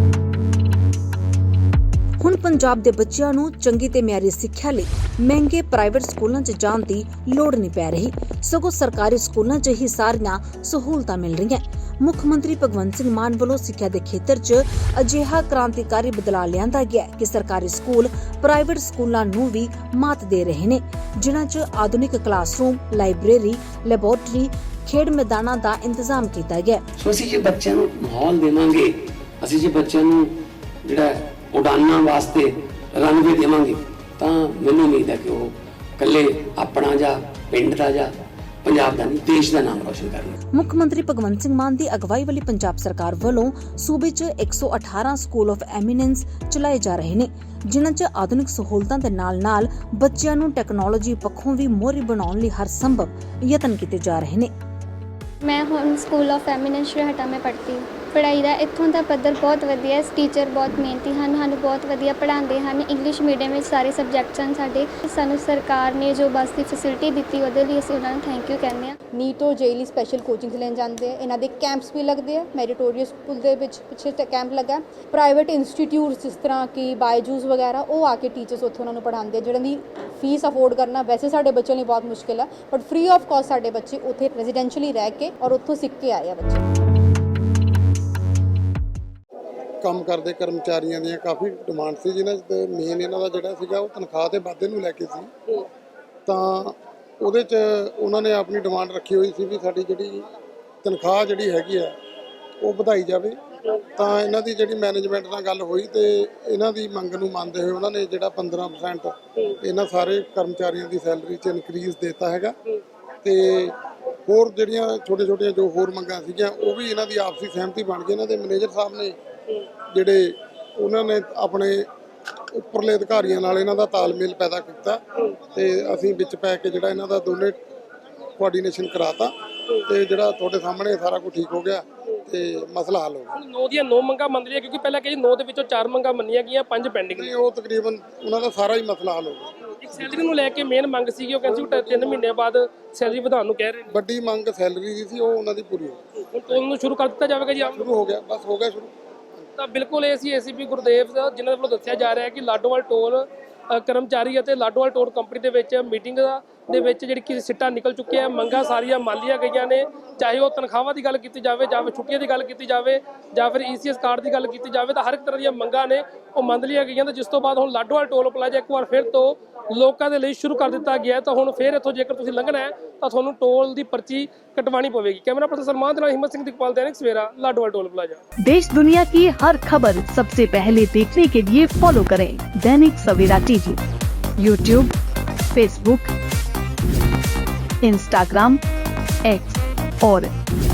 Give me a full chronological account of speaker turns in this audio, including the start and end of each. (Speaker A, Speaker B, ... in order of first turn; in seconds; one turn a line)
Speaker A: 2.2-26.8
Speaker B: 27.0-30.3
Speaker B: 30.8-38.1
Speaker B: 38.6-40.3
Speaker A: 40.5-54.5
Speaker C: 55.4-69.0
Speaker D: 69.1-86.6
Speaker E: 89.8-95.3
Speaker E: 96.3-100.3
Speaker E: 100.8-102.0
Speaker E: 102.6-103.4
Speaker E: 104.0-112.5
Speaker E: 113.2-113.8
Speaker E: 114.3-119.2
Speaker E: 119.9-121.9
Speaker E: 122.5-125.0
Speaker E: 125.5-127.6
Speaker E: 128.4-129.3
Speaker E: 129.8-133.3
Speaker F: 133.3-137.3
Speaker E: 137.2-139.5
Speaker F: 139.8-143.9
Speaker E: 143.9-146.0
Speaker F: 146.3-147.8
Speaker E: 147.7-148.9
Speaker F: 149.6-178.2
Speaker G: 178.5-183.8
Speaker G: 184.4-184.9
Speaker G: 185.5-186.0
Speaker G: 187.8-188.5
Speaker G: 189.2-190.3